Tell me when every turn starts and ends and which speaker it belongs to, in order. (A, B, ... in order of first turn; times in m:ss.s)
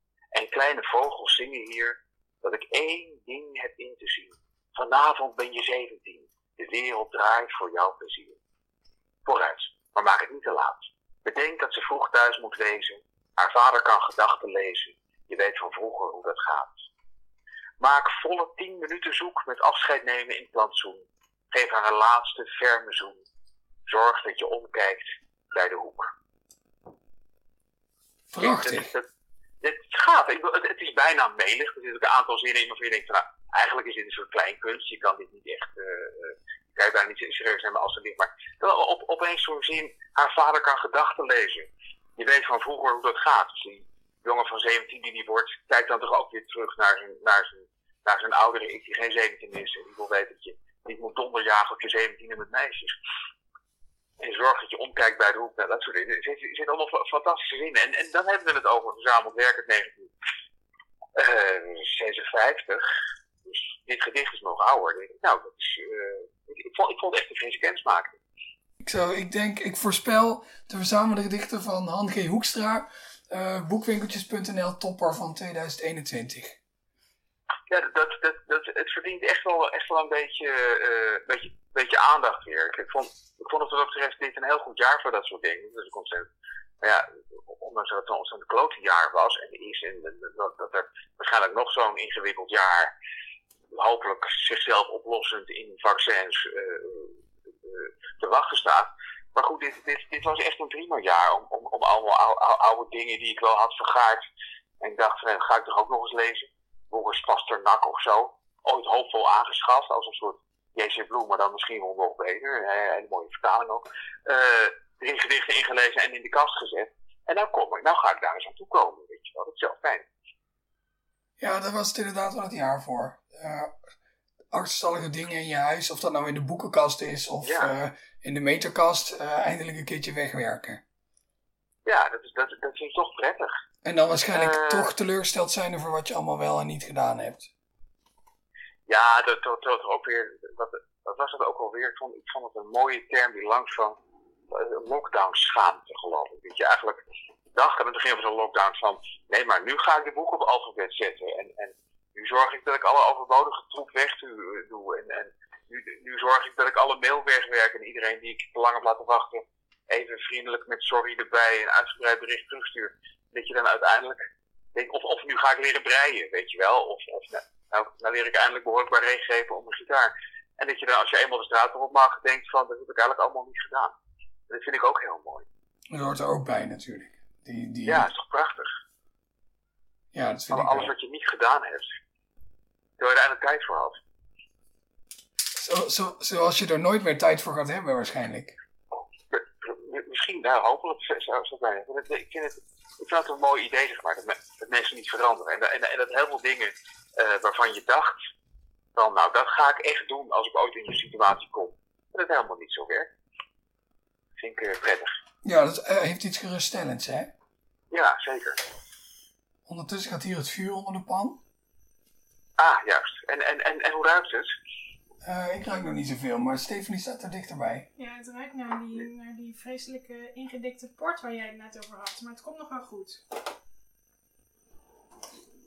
0:00.4-0:08.4 A
0:09.3-0:16.7 A
0:17.8-0:23.2 A
0:23.9-0:25.0 A
0:25.5-0:26.1 A
0:28.3-0:28.9 B
0:28.4-0:29.0 A
0:29.6-0:41.7 A
0:42.2-0:52.9 A
0:54.2-1:00.1 A
1:01.2-1:02.8 A
1:03.5-1:08.2 A
1:08.8-1:16.6 B
1:17.7-1:26.3 A
1:26.8-1:32.9 A
1:33.7-1:44.2 A
1:44.8-2:00.0 A
2:01.4-2:03.7 B
2:04.5-2:10.8 B
2:07.4-2:07.7 A
2:11.9-2:13.5 A
2:13.8-2:17.5 B
2:14.3-2:14.9 A
2:18.9-2:24.0 A
2:24.5-2:27.0 A
2:27.5-2:44.2 A
2:44.8-2:53.9 A
2:54.5-2:55.5 A
2:55.9-2:58.1 B
2:57.9-2:58.7 A
3:00.1-3:00.9 B
3:00.5-3:01.9 A
3:03.0-3:04.0 A
3:05.6-3:08.6 B
3:09.3-3:18.2 A
3:19.0-3:23.1 A
3:24.4-3:25.1 A
3:25.4-3:27.3 B
3:27.9-3:28.6 A
3:29.7-3:31.4 B
3:32.6-3:34.5 A
3:35.2-3:37.9 B
3:38.0-3:43.2 C